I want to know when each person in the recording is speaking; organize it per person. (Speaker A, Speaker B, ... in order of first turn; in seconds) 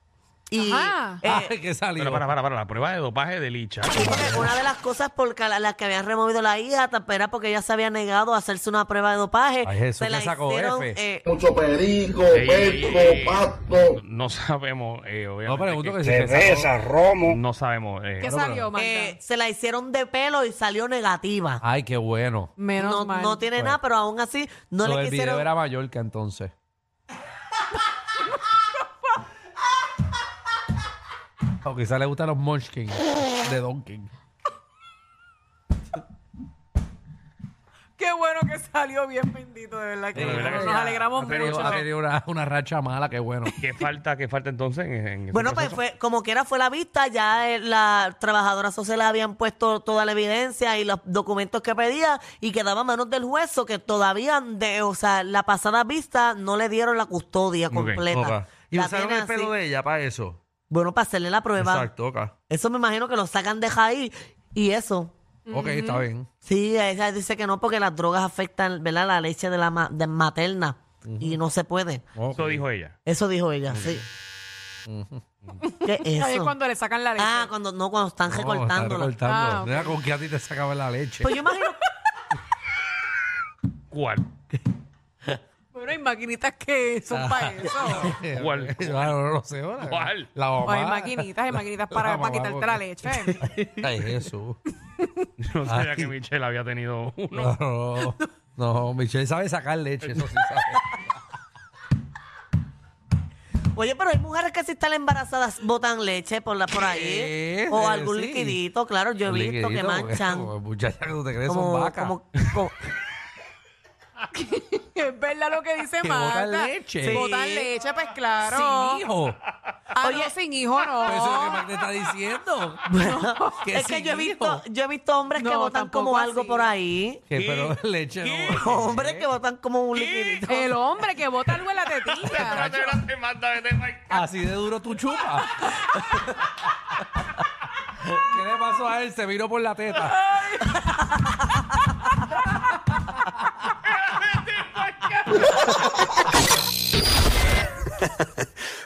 Speaker A: 0.5-1.5, 3.9-11.2, 18.7-21.6, 22.8-25.5, 45.3-59.5, 60.7-61.9, 62.5-65.1, 66.4-72.0, 73.0-74.0, 75.8-76.5, 77.2-79.1, 81.2-81.8, 103.7-110.5, 111.5-112.7, 117.0-117.7, 120.0-120.3, 122.9-127.2, 128.6-130.8
Speaker B: 0.6-1.2, 18.2-19.2, 22.6-23.5, 38.0-41.8, 43.5-43.7, 65.5-66.0, 75.8-77.5, 79.2-80.0, 85.7-88.2, 90.6-93.4, 114.3-119.0, 119.9-121.7, 123.0-123.6, 125.3-126.7, 130.5-133.0, 140.0-141.0
Speaker C: 1.2-2.2, 3.9-4.5, 9.6-11.0, 15.4-16.8, 18.2-18.7, 21.6-22.5, 24.8-26.5, 31.6-34.1, 40.1-43.5, 57.8-60.4, 61.6-62.3, 65.5-66.3, 71.0-71.4, 72.1-72.6, 74.9-75.2, 78.3-81.3, 87.1-94.6, 95.7-96.1, 97.3-100.8, 106.7-108.6, 109.2-112.2, 116.0-117.2, 118.4-119.4, 121.0-123.0, 123.6-124.6, 127.3-129.3, 134.1-136.6, 138.2-140.2
Speaker D: 2.0-4.1, 12.3-16.3, 17.1-18.3, 40.1-41.8, 43.6-45.8, 57.7-58.0, 72.3-72.9, 83.9-84.3, 88.1-89.2, 89.8-90.3, 95.4-97.5, 100.0-100.3, 127.3-128.9, 129.9-130.5, 132.0-134.3
Speaker E: 11.4-13.4